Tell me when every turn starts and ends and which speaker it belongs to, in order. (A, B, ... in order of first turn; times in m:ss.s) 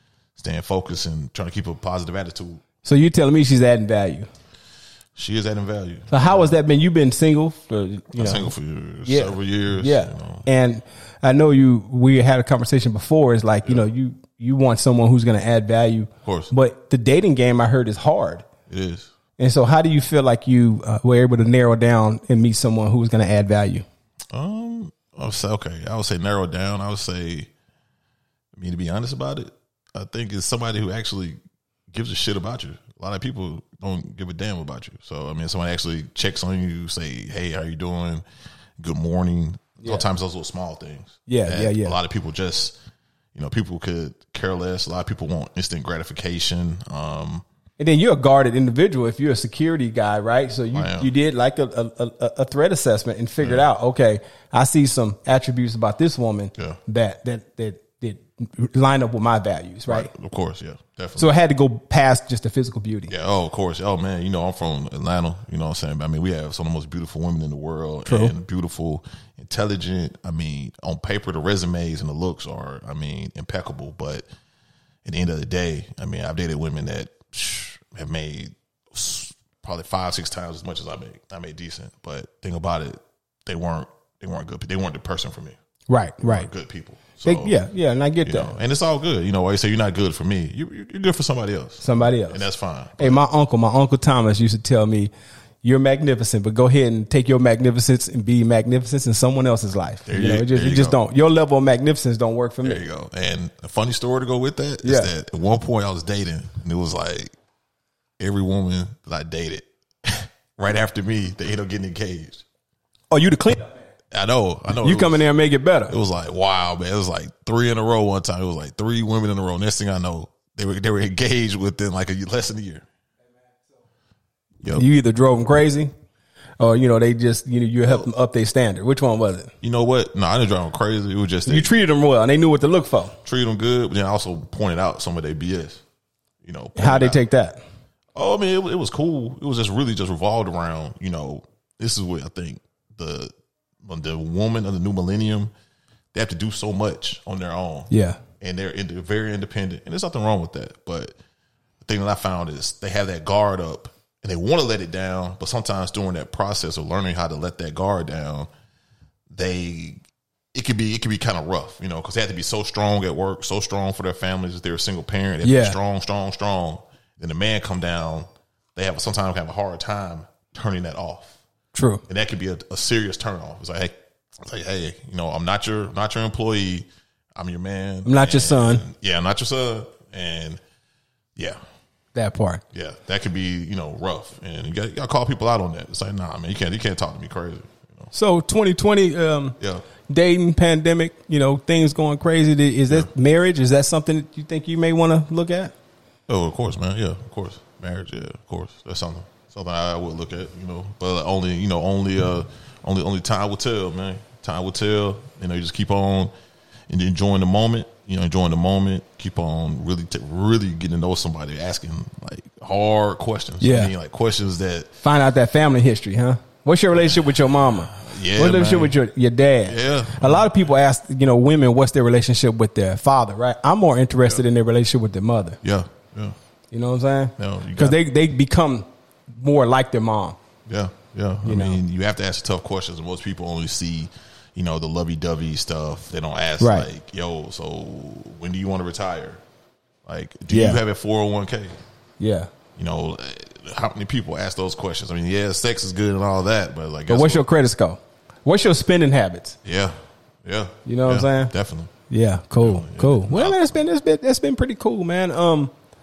0:00.4-0:02.6 A
0:02.8-0:04.3 B
0:05.2-0:06.6 A
0:06.1-0:08.5 B
0:08.2-0:10.5 A
0:09.0-0:18.4 B
0:16.2-0:16.5 A
0:18.7-0:19.1 A
0:19.4-0:23.8 B
0:24.3-0:27.5 A
0:28.5-0:31.4 A
0:31.9-0:38.2 A
0:38.8-0:42.8 A
0:41.3-0:42.0 B
0:43.3-0:47.4 A
0:47.8-1:00.1 B
0:50.7-0:51.1 A
0:53.4-0:53.6 A
0:59.9-1:01.3 A
1:01.2-1:03.1 B
1:03.1-1:14.2 A
1:08.0-1:08.3 B
1:15.0-1:25.6 A
1:25.9-1:26.5 B
1:26.2-1:27.6 A
1:27.2-1:28.5 B
1:28.2-1:33.2 A
1:31.8-1:32.4 B
1:33.0-1:35.1 B
1:35.6-1:42.8 B
1:40.0-1:41.0 A
1:42.6-1:47.3 A
1:44.8-1:45.1 B
1:48.2-1:52.4 A
1:53.1-1:53.7 B
1:54.1-1:55.2 A
1:54.8-1:55.9 B
1:55.9-2:02.8 A
2:04.7-2:05.9 B
2:06.6-2:09.5 B
2:09.6-2:11.7 A
2:11.4-2:13.2 B
2:13.2-2:15.8 A
2:16.4-2:17.2 A
2:16.8-2:17.6 B
2:18.1-2:23.3 A
2:23.8-2:25.5 A
2:26.1-2:31.2 A
2:27.9-2:28.2 B
2:31.8-2:38.5 A
2:39.3-2:40.0 A
2:40.5-2:51.4 A
2:45.4-2:45.8 B
2:51.7-2:52.0 B
2:52.1-3:00.6 A
2:58.0-2:58.8 B
3:02.1-3:02.6 B
3:02.7-3:08.1 A
3:08.1-3:09.6 B
3:10.1-3:15.7 B
3:16.3-3:26.3 A
3:26.9-3:34.9 A
3:33.6-3:33.9 B
3:35.0-3:45.6 B
3:37.0-3:39.0 A
3:39.6-3:40.6 A
3:45.6-3:46.4 A
3:46.7-3:50.4 B
3:47.4-3:48.0 A
3:50.6-3:59.4 A
3:51.4-3:51.8 B
3:56.6-3:56.9 B
4:00.0-4:01.8 A
4:00.5-4:00.8 B
4:02.2-4:02.5 B
4:02.8-4:07.4 A
4:07.1-4:09.6 B
4:09.6-4:11.9 A
4:10.8-4:11.5 B
4:12.1-4:15.7 B
4:12.6-4:13.8 A